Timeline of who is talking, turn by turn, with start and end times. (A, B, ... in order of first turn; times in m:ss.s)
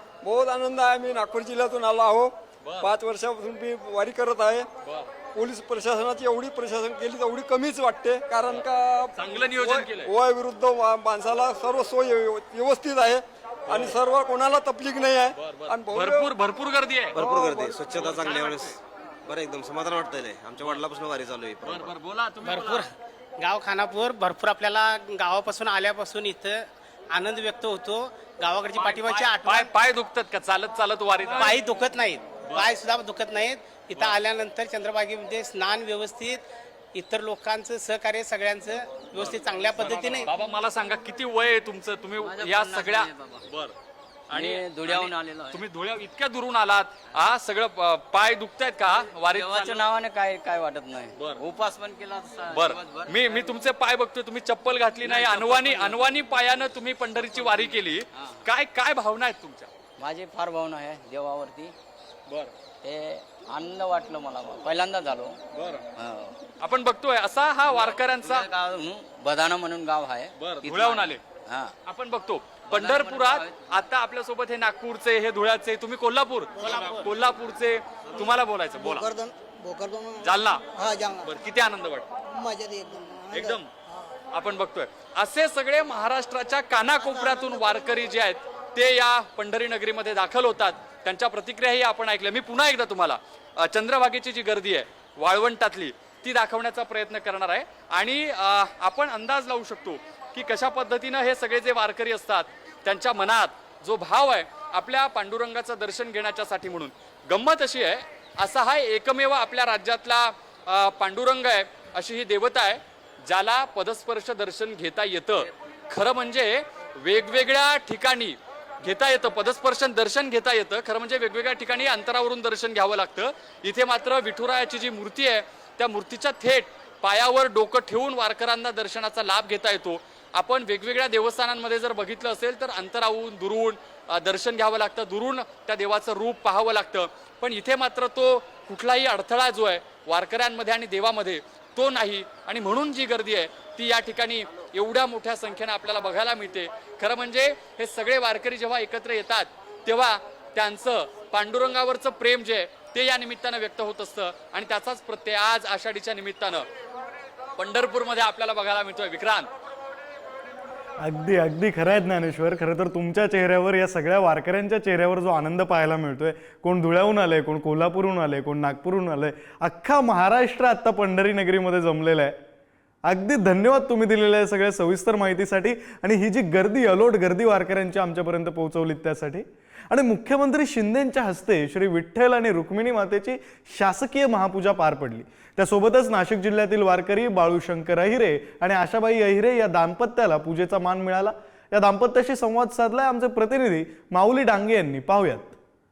0:00.2-0:04.7 A
0:02.6-0:02.9 B
0:05.3-0:16.3 A
0:08.5-0:10.1 B
0:15.4-0:17.2 B
0:17.1-0:22.0 C
0:17.2-0:17.8 A
0:18.0-0:18.7 B
0:21.7-0:22.9 B
0:22.4-0:29.7 D
0:28.7-0:31.6 B
0:31.4-0:36.4 D
0:32.5-0:32.8 B
0:36.9-0:40.3 D
0:39.2-0:43.7 B
0:42.2-0:43.5 E
0:44.3-0:49.8 B
0:44.3-0:45.6 E
0:49.3-0:53.6 E
0:51.2-0:51.4 B
0:52.5-0:59.7 B
0:55.0-0:56.1 E
0:57.2-0:58.4 E
1:00.0-1:01.7 E
1:02.8-1:05.4 E
1:05.6-1:05.8 B
1:06.0-1:06.4 E
1:06.6-1:08.5 B
1:07.7-1:11.7 E
1:10.4-1:11.2 B
1:11.8-1:19.1 B
1:12.7-1:13.7 E
1:16.6-1:16.9 F
1:18.8-1:21.3 F
1:20.2-1:20.6 B
1:21.2-1:22.1 B
1:22.3-1:23.9 F
1:23.3-1:23.7 B
1:24.3-2:36.7 B
1:27.0-1:27.8 F
2:37.6-2:39.5 B
2:41.0-2:52.4 G
2:53.1-3:15.6 G